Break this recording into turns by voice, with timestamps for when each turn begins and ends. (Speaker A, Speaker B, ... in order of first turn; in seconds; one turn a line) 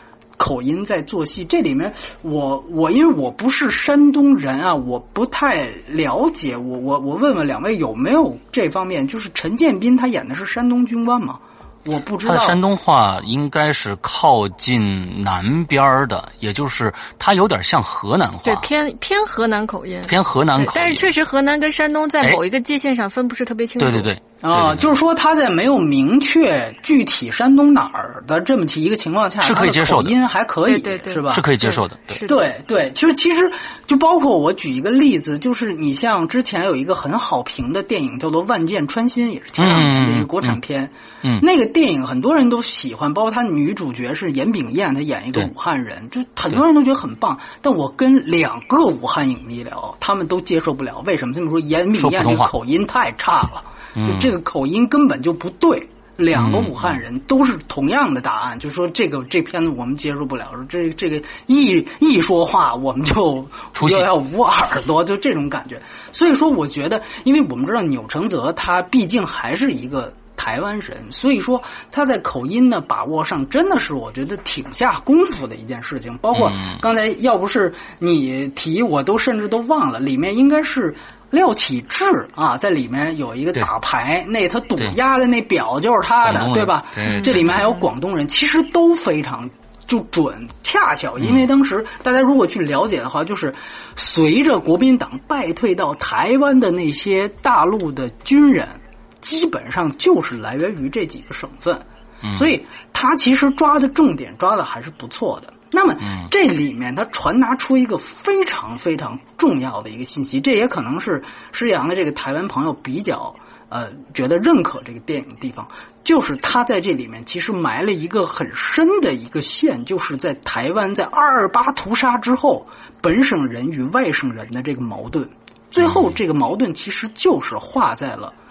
Speaker A: 0.4-12.6
Speaker B: 12.2-18.7
Speaker C: 18.4-24.1
Speaker B: 20.1-21.1
Speaker B: 23.8-24.9
Speaker A: 24.4-31.5
Speaker B: 29.4-30.1
Speaker C: 30.6-32.4
Speaker B: 31.3-32.2
Speaker A: 32.2-128.3
Speaker B: 39.6-40.6
Speaker B: 52.0-52.5
Speaker B: 54.0-54.3
Speaker B: 56.3-56.8
Speaker B: 63.8-64.1
Speaker B: 76.3-76.8
Speaker B: 86.2-87.5
Speaker C: 87.0-87.3
Speaker B: 102.2-102.5